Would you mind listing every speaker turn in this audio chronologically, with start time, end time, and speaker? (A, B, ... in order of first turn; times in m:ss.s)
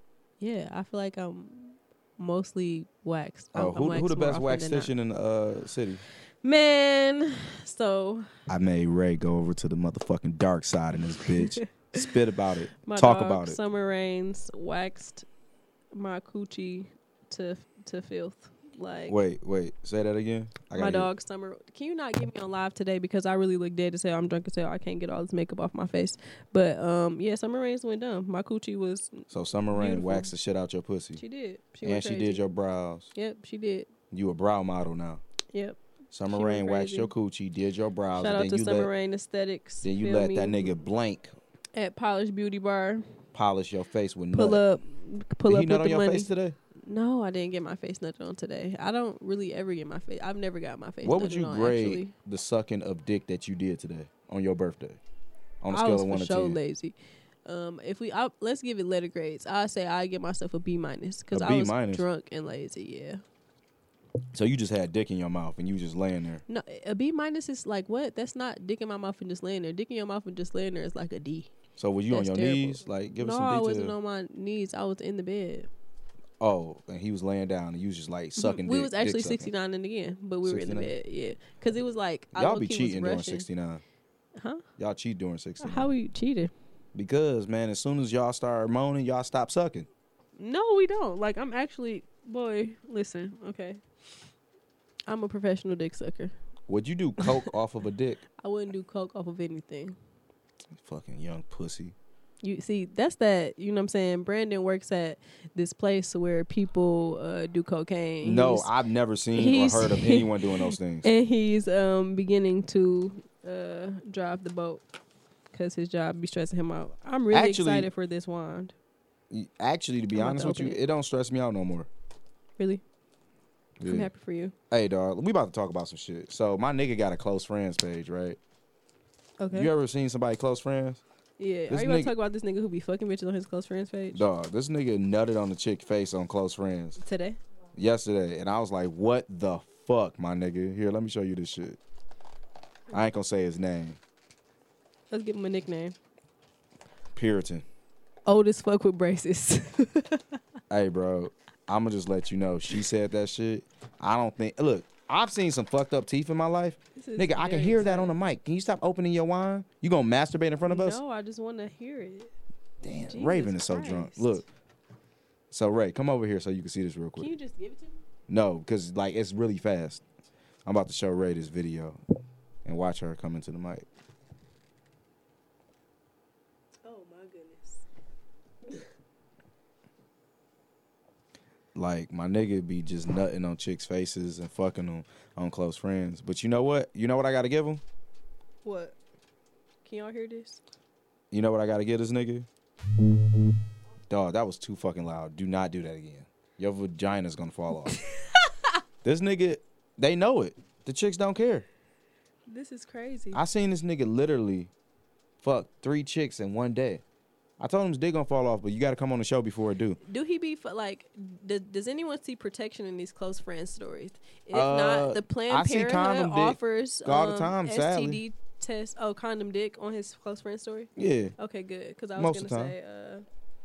0:00.4-0:04.9 A
0:03.5-0:06.0 B
0:06.4-0:08.3 A
0:08.5-0:13.6 B
0:11.2-0:12.0 A
0:12.8-0:15.3 A
0:15.9-0:19.2 A
0:19.1-0:21.1 B
0:20.8-0:30.3 A
0:29.3-0:31.2 B
0:31.2-0:32.4 A
0:31.8-0:33.1 B
0:33.2-0:33.9 A
0:34.1-0:35.2 B
0:35.5-0:35.8 A
0:36.1-0:38.9 B
0:36.3-0:37.1 A
0:38.2-0:40.8 A
0:39.8-0:41.4 B
0:41.8-0:43.2 A
0:43.3-0:44.6 B
0:44.3-0:46.3 A
0:45.5-0:46.6 B
0:46.9-0:52.1 A
0:51.0-0:55.0 B
0:55.6-0:56.6 B
0:55.7-0:57.0 A
0:57.5-1:03.2 A
1:01.3-1:02.0 B
1:04.3-1:06.4 B
1:06.5-1:11.5 A
1:11.8-1:13.9 B
1:12.1-1:15.7 A
1:16.4-1:19.5 B
1:18.4-1:23.5 A
1:20.4-1:20.9 B
1:22.3-1:23.8 B
1:24.4-1:24.6 A
1:24.8-1:25.9 B
1:25.6-1:26.5 A
1:27.0-1:29.9 B
1:30.4-1:33.8 A
1:35.1-1:36.3 A
1:36.7-1:38.2 B
1:38.4-1:40.0 A
1:40.8-1:42.0 B
1:42.4-1:48.7 A
1:48.2-1:51.1 B
1:49.4-1:54.8 A
1:55.5-1:58.7 A
1:57.3-1:57.9 B
1:59.3-2:01.9 B
2:00.2-2:00.8 A
2:03.8-2:04.1 B
2:03.8-2:04.5 A
2:04.7-2:08.4 B
2:09.4-2:09.7 A
2:09.5-2:11.0 B
2:11.4-2:14.2 A
2:11.7-2:12.1 B
2:14.1-2:17.0 B
2:17.0-2:17.4 A
2:17.8-2:21.8 B
2:22.9-2:24.0 B
2:25.1-2:26.0 A
2:27.2-2:27.6 B
2:28.3-2:30.4 A
2:30.7-2:41.0 B
2:37.0-2:38.2 A
2:40.6-2:42.3 A
2:42.8-2:44.4 B
2:43.1-2:44.4 A
2:45.5-2:47.3 B
2:47.2-2:48.0 A
2:48.3-2:50.0 B
2:50.7-2:52.0 B
2:52.6-2:53.9 B
2:56.8-2:57.8 A
3:01.8-3:07.8 B
3:08.6-3:09.0 A
3:09.8-3:10.6 A
3:11.3-3:12.5 B
3:14.1-3:18.0 B
3:19.0-3:21.7 B
3:22.5-3:23.4 A
3:23.3-3:24.7 B
3:25.4-3:27.0 B
3:27.6-3:30.0 B
3:30.0-3:43.2 A
3:34.5-3:38.2 B
3:41.0-3:41.3 B
3:42.2-3:42.7 B